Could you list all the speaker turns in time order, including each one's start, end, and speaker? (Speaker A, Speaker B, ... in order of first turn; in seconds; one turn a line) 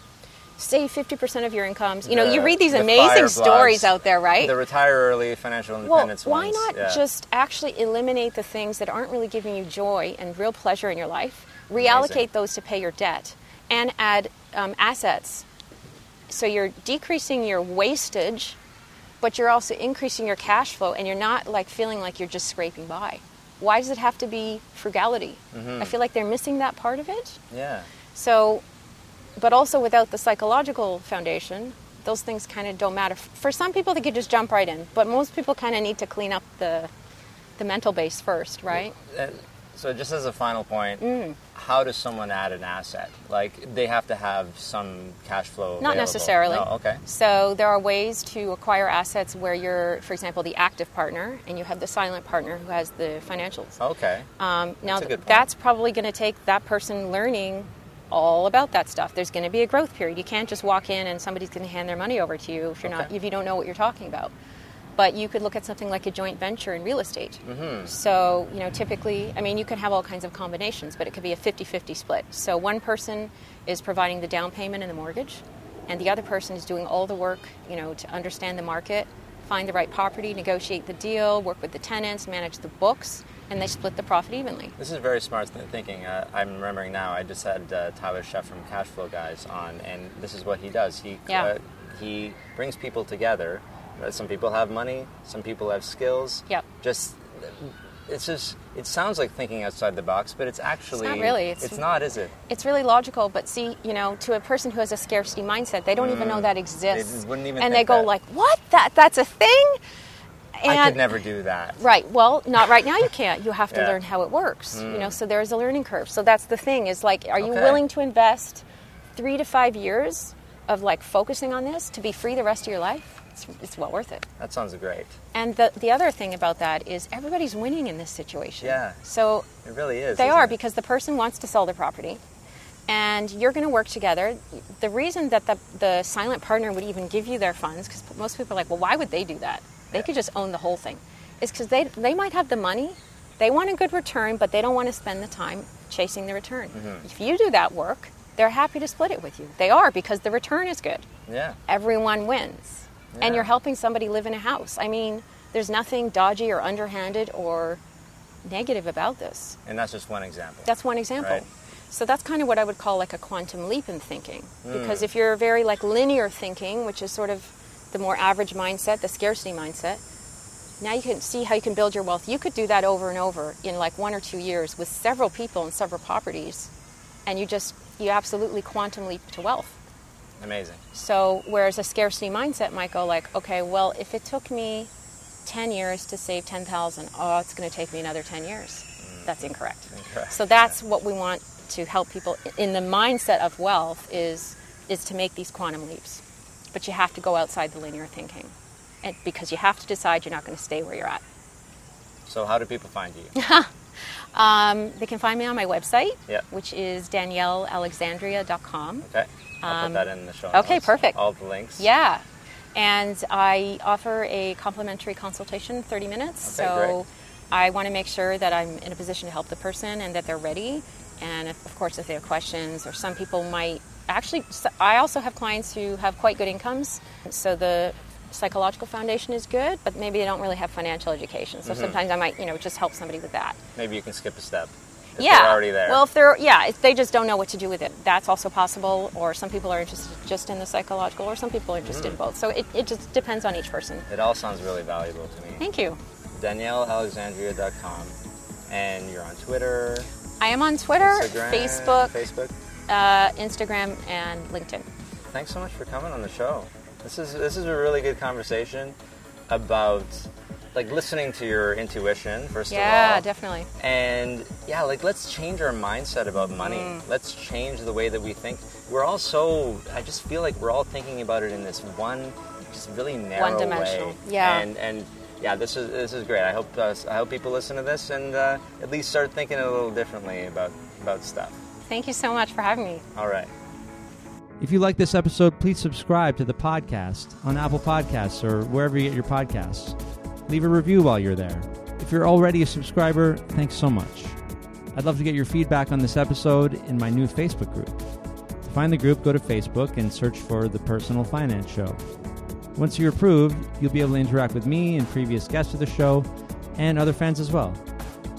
Speaker A: 0.6-4.6
Speaker B: 2.0-7.0
Speaker A: 5.8-15.4
Speaker B: 11.8-12.2
Speaker A: 16.3-18.6
Speaker A: 19.2-27.4
Speaker B: 25.5-25.9
Speaker B: 27.5-27.9
Speaker A: 28.1-28.6
Speaker A: 29.4-36.9
Speaker A: 37.6-39.0
Speaker B: 38.7-47.0
Speaker A: 41.0-41.4
Speaker A: 45.8-53.8
Speaker B: 53.8-54.3
Speaker A: 54.4-64.3
Speaker B: 54.9-55.5
Speaker B: 62.8-63.1
Speaker A: 65.0-84.8
Speaker B: 67.4-67.9
Speaker B: 84.8-102.3
Speaker A: 101.0-101.8
Speaker A: 102.5-109.8
Speaker B: 106.0-108.1
Speaker A: 110.6-111.1
Speaker B: 110.7-111.8
Speaker A: 111.8-118.6
Speaker B: 113.7-114.0
Speaker B: 114.7-115.2
Speaker B: 117.4-117.8
Speaker A: 119.2-124.2
Speaker B: 124.4-125.2
Speaker A: 125.3-129.5
Speaker B: 128.6-129.0
Speaker B: 129.6-130.6
Speaker A: 130.2-132.2
Speaker A: 132.9-151.1
Speaker B: 146.7-147.0
Speaker B: 151.3-151.6
Speaker A: 151.7-157.8
Speaker B: 153.1-153.5
Speaker A: 158.4-159.6
Speaker B: 159.7-160.7
Speaker A: 160.7-170.0
Speaker B: 164.7-165.1
Speaker A: 170.8-176.7
Speaker A: 177.3-179.8
Speaker B: 180.4-180.8
Speaker A: 180.9-184.9
Speaker A: 185.5-196.2
Speaker B: 189.0-189.3
Speaker B: 189.9-190.7
Speaker A: 196.7-201.2
Speaker B: 202.3-203.3
Speaker A: 203.3-203.7
Speaker A: 204.3-209.1
Speaker B: 209.1-211.9
Speaker A: 209.6-211.2
Speaker A: 211.8-212.2
Speaker A: 212.8-233.6
Speaker B: 216.4-217.0
Speaker B: 231.7-232.0
Speaker B: 233.8-236.0
Speaker A: 235.2-244.1
Speaker B: 241.8-242.2
Speaker B: 244.1-245.6
Speaker A: 245.6-246.0
Speaker B: 246.3-248.2
Speaker B: 248.7-250.1
Speaker A: 250.4-252.2
Speaker B: 251.0-252.5
Speaker A: 252.9-254.9
Speaker B: 255.3-258.9
Speaker B: 259.5-263.2
Speaker A: 262.7-263.7
Speaker B: 263.8-281.6
Speaker A: 266.5-267.0
Speaker A: 273.4-274.7
Speaker A: 281.9-283.1
Speaker B: 283.1-283.5
Speaker C: 284.6-289.9
Speaker C: 290.5-294.4
Speaker C: 294.9-298.0
Speaker C: 298.6-302.0
Speaker C: 302.8-307.8